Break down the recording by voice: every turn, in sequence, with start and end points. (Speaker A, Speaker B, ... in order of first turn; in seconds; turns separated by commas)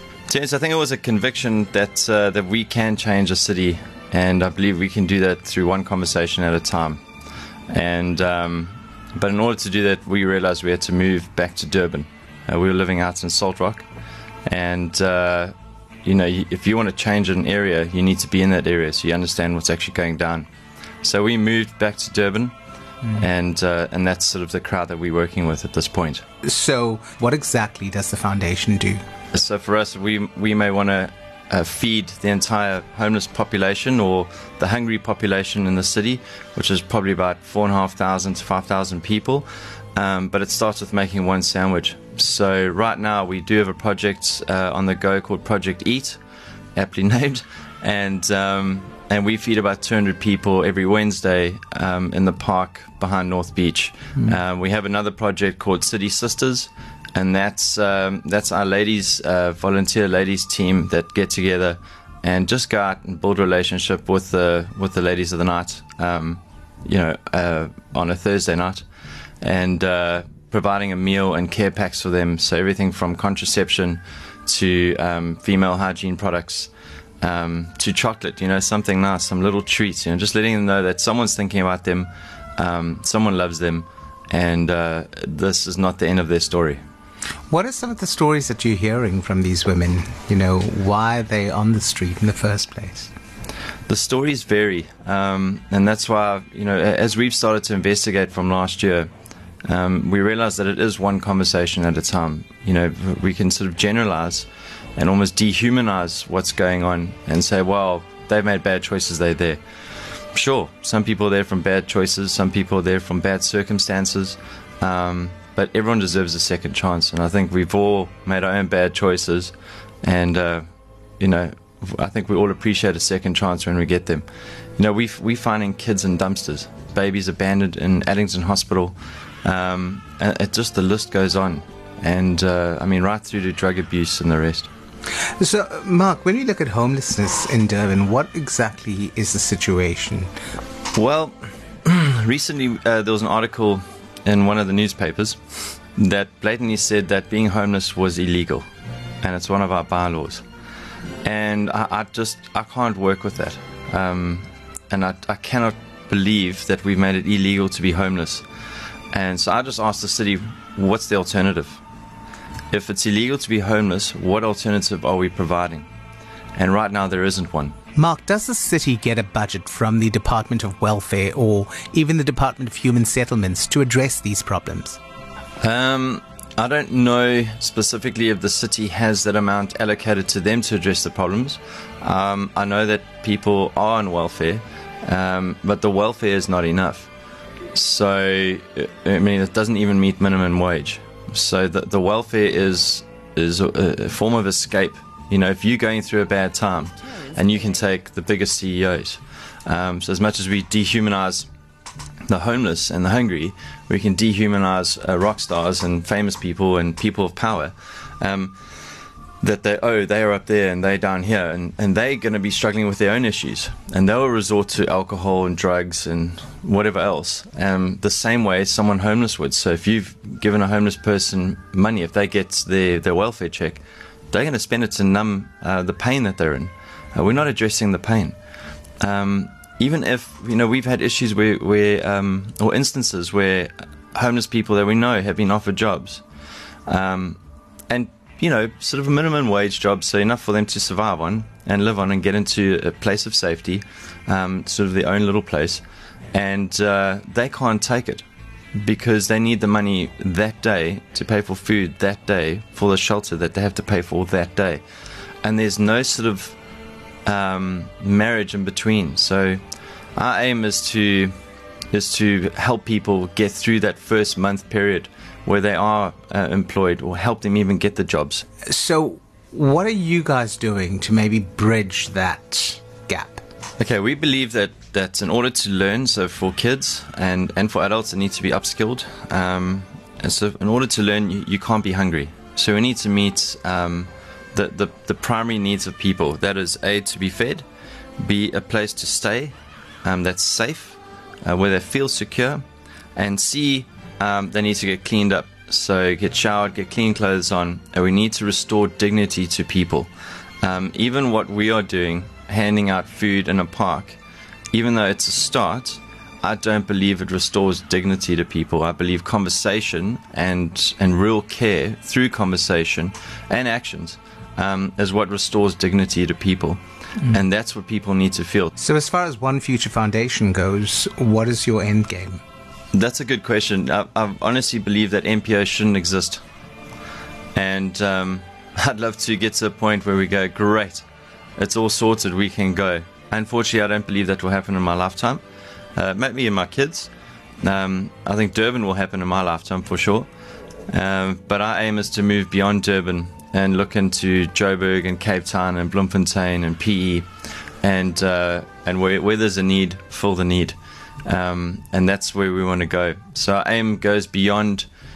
Speaker A: 0.3-7.0, Speaker A: 7.7-13.9, Speaker A: 14.5-15.5, Speaker A: 16.1-20.5, Speaker A: 21.0-22.5, Speaker A: 23.2-26.2, Speaker B: 26.4-29.0, Speaker A: 29.3-46.2, Speaker A: 46.8-68.8, Speaker A: 69.4-86.8, Speaker B: 87.5-93.1, Speaker A: 93.9-99.1, Speaker A: 99.7-109.6, Speaker A: 110.3-120.7, Speaker A: 121.2-134.7, Speaker B: 135.4-140.3, Speaker A: 140.9-145.4, Speaker A: 145.9-148.7, Speaker A: 149.2-150.4, Speaker A: 151.2-158.4, Speaker A: 159.1-161.8, Speaker A: 162.7-165.9, Speaker A: 166.6-167.8, Speaker B: 168.0-175.0, Speaker A: 175.6-187.1, Speaker A: 187.7-201.5, Speaker A: 202.3-208.6, Speaker A: 209.4-228.4, Speaker A: 229.0-236.2, Speaker A: 236.9-254.8, Speaker A: 255.4-256.6, Speaker A: 257.3-259.6, Speaker A: 260.2-261.3, Speaker A: 261.9-268.5, Speaker B: 268.7-273.4, Speaker A: 273.8-287.7, Speaker A: 288.2-292.6, Speaker A: 293.2-300.1, Speaker A: 300.6-304.2, Speaker A: 304.7-318.8, Speaker B: 318.8-322.4, Speaker A: 322.9-326.4, Speaker A: 327.6-331.1, Speaker A: 331.6-335.4, Speaker A: 336.0-340.3, Speaker A: 340.9-347.3, Speaker A: 347.8-354.9